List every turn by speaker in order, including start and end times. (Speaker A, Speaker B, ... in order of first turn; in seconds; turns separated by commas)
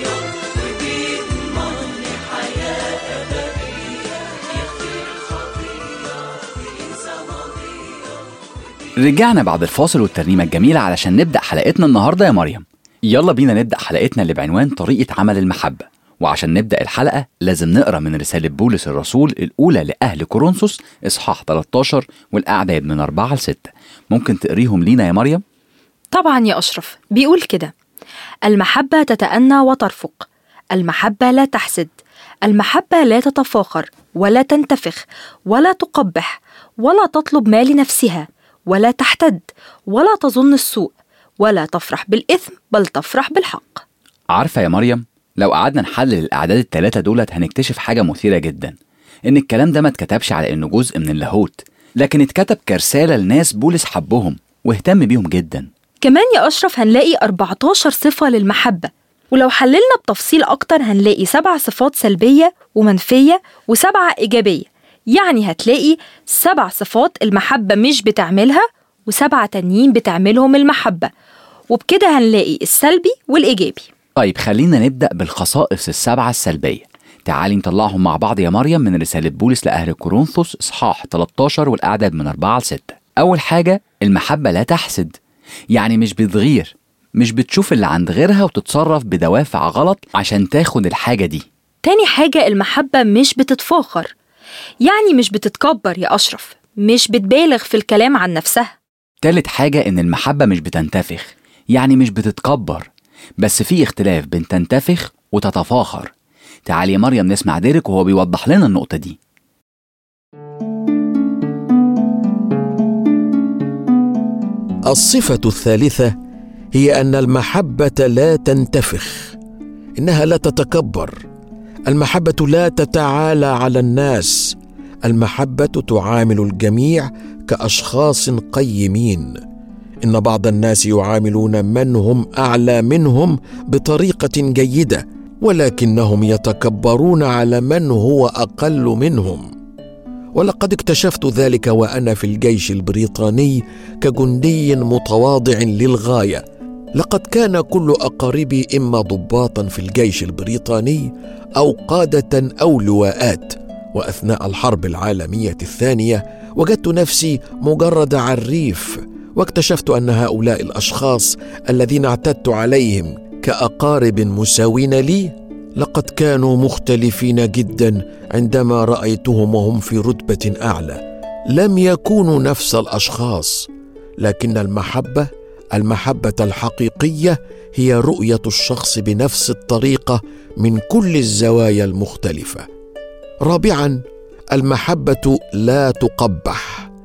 Speaker A: 9.0-25.4, Speaker B: 26.1-27.7, Speaker B: 28.5-31.9, Speaker B: 32.5-43.8, Speaker A: 44.3-48.7, Speaker A: 49.3-55.7, Speaker B: 56.0-71.1, Speaker B: 71.7-73.9, Speaker A: 74.2-85.1, Speaker A: 85.7-91.5, Speaker B: 91.8-94.1, Speaker B: 94.8-98.8, Speaker A: 99.2-102.9, Speaker A: 103.4-106.1, Speaker A: 106.7-109.2, Speaker C: 114.9-116.1, Speaker C: 116.8-119.3, Speaker C: 120.0-121.2, Speaker C: 121.9-124.5, Speaker C: 125.1-129.3, Speaker C: 130.0-139.5, Speaker C: 140.3-146.4, Speaker C: 147.0-171.0, Speaker C: 171.5-173.7, Speaker C: 174.2-182.7, Speaker C: 183.5-184.0, Speaker C: 184.5-186.9